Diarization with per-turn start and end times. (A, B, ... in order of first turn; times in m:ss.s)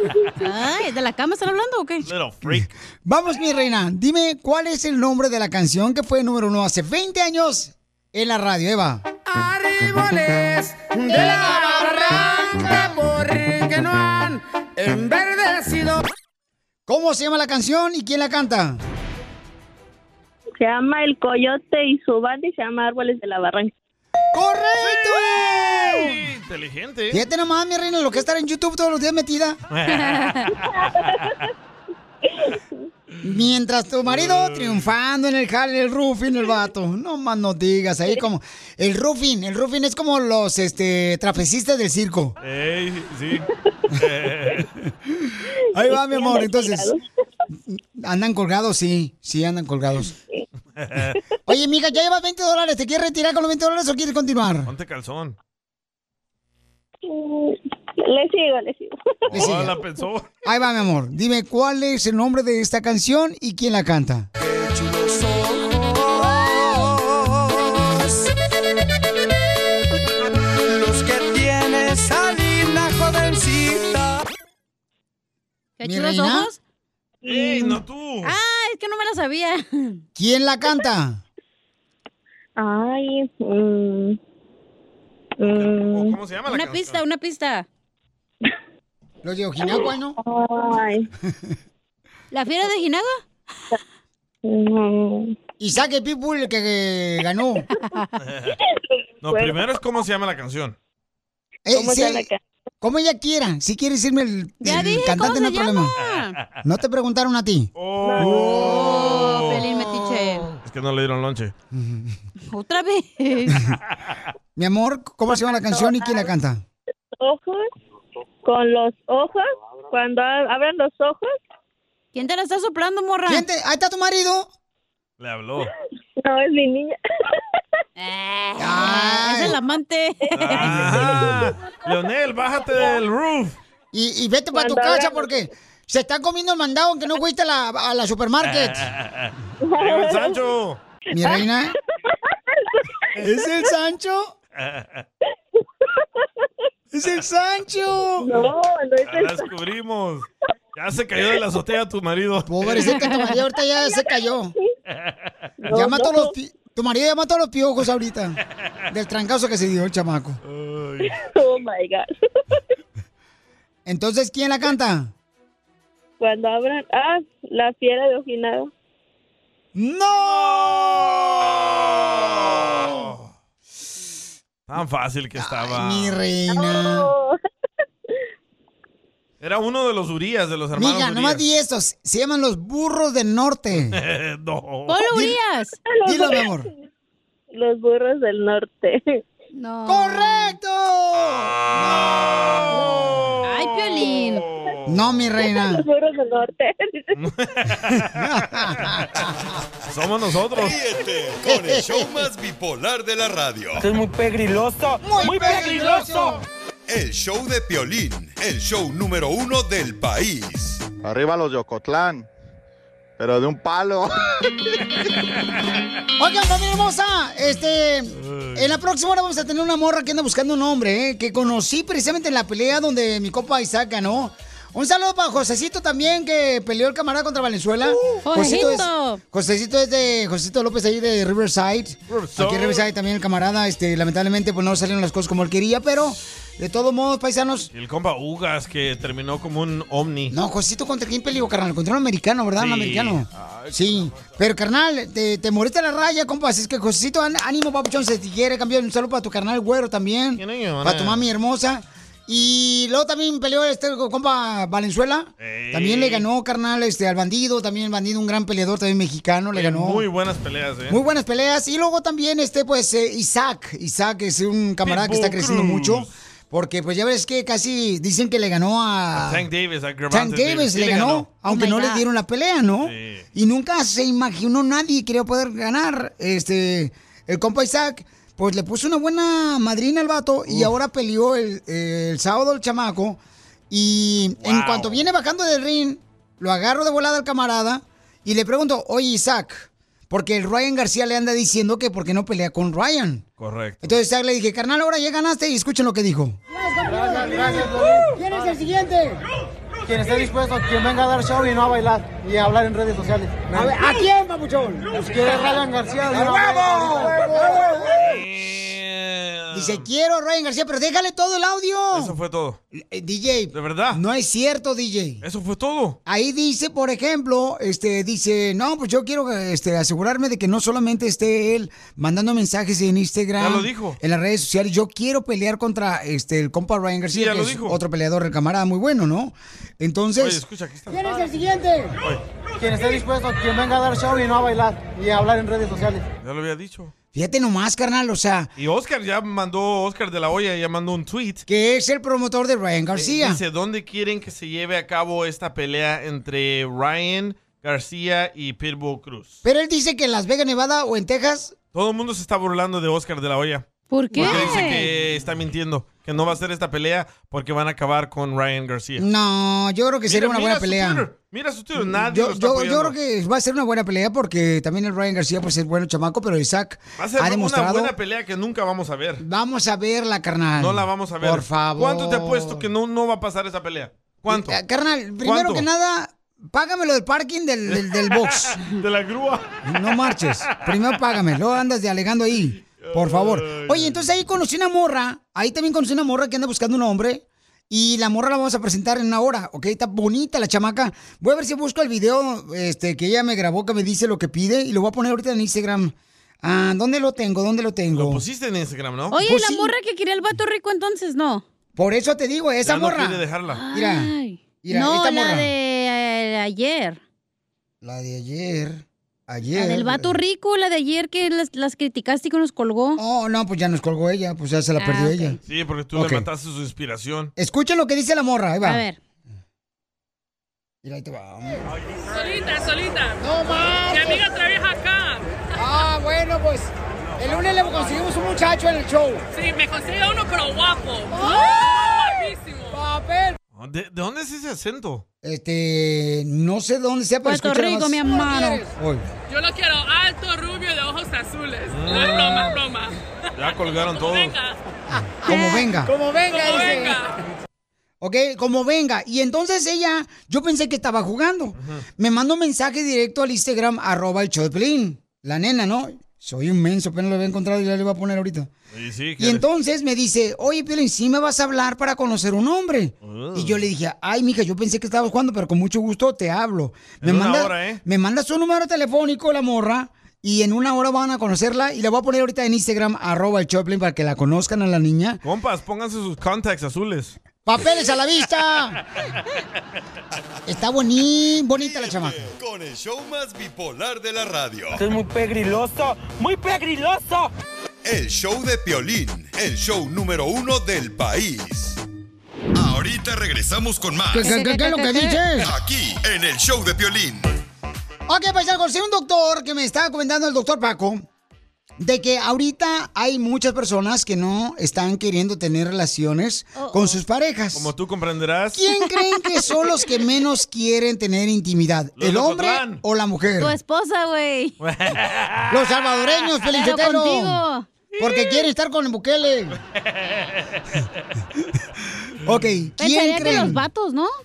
0:00.4-0:02.1 A
0:02.0-0:02.7 B
0:02.4-0:09.0 C
0:09.3-0:16.0 D
0:11.0-0:12.9 C
0:16.9-0:18.8 C
0:20.6-0:23.7 E
0:24.3-0:26.3 C
0:24.9-0:27.2 B
0:27.1-0:29.6 C
0:29.7-0:31.4 B
0:29.9-0:30.5 A
0:30.7-0:31.4 E
0:33.2-0:42.4 C
0:34.1-0:34.9 B
0:42.4-0:44.7 B
0:45.7-0:46.9 C
0:45.8-0:47.0 E
0:47.7-0:50.1 C
0:50.8-0:51.2 B
0:51.5-0:54.7 C
0:54.6-0:55.4 B
0:57.1-0:58.9 E
0:59.3-1:00.3 B
0:59.3-0:59.7 C
1:00.4-1:04.3 C
1:04.4-1:08.3 D
1:10.7-1:14.2 D
1:15.8-1:16.6 A
1:15.8-1:16.5 C
1:17.3-1:18.4 B
1:17.3-1:17.7 E
1:18.2-1:20.0 A
1:20.2-1:21.2 C
1:22.6-1:24.2 E
1:25.4-1:26.2 E
1:25.4-1:27.0 B
1:26.5-1:27.7 A
1:29.2-1:30.2 C
1:29.6-1:31.1 E
1:32.3-1:33.2 A
1:34.4-1:35.4 E
1:35.6-1:37.7 C
1:37.8-1:38.2 A
1:38.2-1:38.6 B
1:39.2-1:40.8 B
1:39.2-1:39.6 E
1:41.7-1:42.3 C
1:41.7-1:42.4 E
1:42.8-1:46.0 C
1:44.6-1:46.4 A
1:46.6-1:47.7 C
1:47.8-1:49.7 B
1:48.0-1:48.5 E
1:48.4-1:49.0 C
1:48.4-1:50.5 A
1:50.6-1:51.5 B
1:51.7-1:52.2 C
1:52.5-1:53.6 A
1:54.6-1:56.6 C
1:55.5-1:56.3 E
1:57.2-1:57.6 E
1:58.4-2:01.3 E
2:02.1-2:03.4 A
2:03.3-2:04.5 C
2:05.2-2:05.7 B
2:06.2-2:07.0 E
2:08.0-2:10.8 A
2:08.6-2:09.6 C
2:10.3-2:10.6 E
2:10.3-2:13.6 B
2:10.7-2:11.2 C
2:13.9-2:18.9 C
2:14.5-2:15.5 E
2:18.4-2:20.8 B
2:19.6-2:20.4 E
2:21.1-2:21.7 C
2:21.2-2:21.4 E
2:22.3-2:22.8 E
2:23.2-2:24.3 C
2:24.6-2:25.0 B
2:26.9-2:28.3 C
2:28.2-2:29.5 E
2:29.0-2:33.0 B
2:32.5-2:34.5 C
2:32.9-2:33.4 A
2:35.6-2:36.3 E
2:35.7-2:38.4 C
2:38.9-2:40.4 C
2:40.4-2:41.1 B
2:41.0-2:42.6 E
2:43.9-2:45.1 C
2:46.2-2:48.7 E
2:49.8-2:51.2 C
2:50.5-2:53.3 B
2:54.7-2:56.2 B
2:55.4-2:57.1 C
2:56.5-2:57.4 E
2:59.4-3:01.4 B
3:00.8-3:04.0 C
3:03.9-3:05.0 B
3:04.9-3:05.8 A
3:05.9-3:06.6 E
3:06.1-3:06.7 C
3:07.5-3:09.2 E
3:09.5-3:10.6 A
3:09.9-3:12.8 C
3:11.9-3:15.3 B
3:12.7-3:13.1 E
3:13.4-3:14.4 A
3:14.9-3:15.8 C
3:15.4-3:17.1 E
3:17.1-3:19.3 B
3:18.1-3:19.3 C
3:19.8-3:20.8 B
3:20.5-3:23.9 F
3:21.4-3:22.3 C
3:23.8-3:26.4 G
3:25.0-3:26.4 C
3:26.9-3:30.9 F
3:31.0-3:32.3 H
3:33.2-3:34.2 H
3:36.2-3:57.7 C
3:38.3-3:38.6 B
3:48.2-3:49.2 A
3:52.1-3:52.8 B
3:57.7-4:00.3 B
4:00.3-4:20.0 C
4:02.6-4:04.4 B
4:10.4-4:11.3 B
4:15.4-4:16.2 B
4:19.5-4:21.0 B
4:20.9-4:29.5 C
4:24.8-4:26.1 B
4:29.2-4:31.3 B
4:30.1-4:53.2 C
4:31.5-4:32.0 A
4:32.8-4:33.2 B
4:44.4-4:45.0 B
4:53.4-4:53.9 B
4:53.8-4:59.2 C
4:56.8-4:58.1 I
4:59.9-5:03.8 I
5:03.5-5:05.6 C
5:04.9-5:07.2 I
5:06.1-5:08.0 C
5:08.0-5:09.8 B
5:09.5-5:12.2 C
5:11.9-5:12.6 B
5:12.7-5:15.2 C
5:13.5-5:14.0 B
5:15.2-5:16.0 B
5:16.1-5:32.0 C
5:23.4-5:24.0 B
5:27.1-5:27.8 B
5:30.2-5:31.3 B
5:32.6-5:36.0 I
5:36.2-5:36.9 B
5:37.1-5:38.5 C
5:38.6-5:41.4 B
5:41.5-5:43.4 C
5:43.0-5:49.4 B
5:49.4-5:51.6 C
5:51.7-5:53.6 B
5:53.9-5:54.8 A
5:54.2-5:59.0 B
5:54.2-5:54.7 C
5:59.0-6:01.1 C
6:00.1-6:03.0 B
6:01.8-6:07.9 C
6:07.0-6:09.2 B
6:09.2-6:12.7 C
6:10.6-6:14.6 B
6:14.3-6:18.6 C
6:15.2-6:15.7 B
6:17.7-6:20.6 B
6:19.6-6:38.2 C
6:22.8-6:24.1 B
6:37.9-6:39.2 B
6:39.1-6:41.4 A
6:39.2-6:39.7 C
6:41.8-6:44.1 C
6:42.6-6:43.6 B
6:43.5-6:47.0 A
6:44.6-6:45.5 C
6:47.8-6:50.2 C
6:49.5-6:53.0 A
6:53.0-6:55.4 C
6:54.8-6:55.4 A
6:55.5-6:57.3 B
6:55.9-6:56.3 C
6:57.4-6:58.8 C
6:58.6-6:59.0 A
7:00.8-7:01.7 C
7:02.1-7:03.2 J
7:03.2-7:04.2 C
7:03.8-7:05.3 J
7:05.6-7:09.2 C
7:09.3-7:12.8 J
7:11.2-7:11.7 A
7:12.7-7:13.3 C
7:13.6-7:15.0 B
7:15.2-7:19.1 C
7:17.2-7:18.6 A
7:19.3-7:22.9 J
7:21.7-7:22.6 B
7:23.4-7:24.4 B
7:24.0-7:24.5 J
7:25.2-7:27.0 C
7:25.3-7:25.7 A
7:26.2-7:27.1 J
7:28.0-7:38.5 C
7:31.6-7:31.8 B
7:38.7-7:39.4 B
7:39.2-7:55.2 C
7:43.0-7:43.7 B
7:47.0-7:47.8 B
7:55.2-7:57.2 B
7:57.5-7:58.8 C
8:00.5-8:02.3 C
8:01.6-8:04.8 F
8:04.8-8:07.3 G
8:07.8-8:11.8 F
8:12.5-8:14.3 F
8:14.1-8:15.5 C
8:14.2-8:15.2 A
8:15.4-8:17.3 F
8:18.1-8:21.0 C
8:21.8-8:27.7 C
8:26.6-8:27.0 A
8:27.5-8:28.6 B
8:28.5-8:33.6 C
8:32.0-8:32.8 B
8:33.4-8:34.6 A
8:34.6-8:35.6 B
8:35.5-8:37.4 C
8:36.5-8:37.7 A
8:38.0-8:39.6 C
8:39.9-8:40.9 B
8:42.2-8:43.6 C
8:42.8-8:44.1 A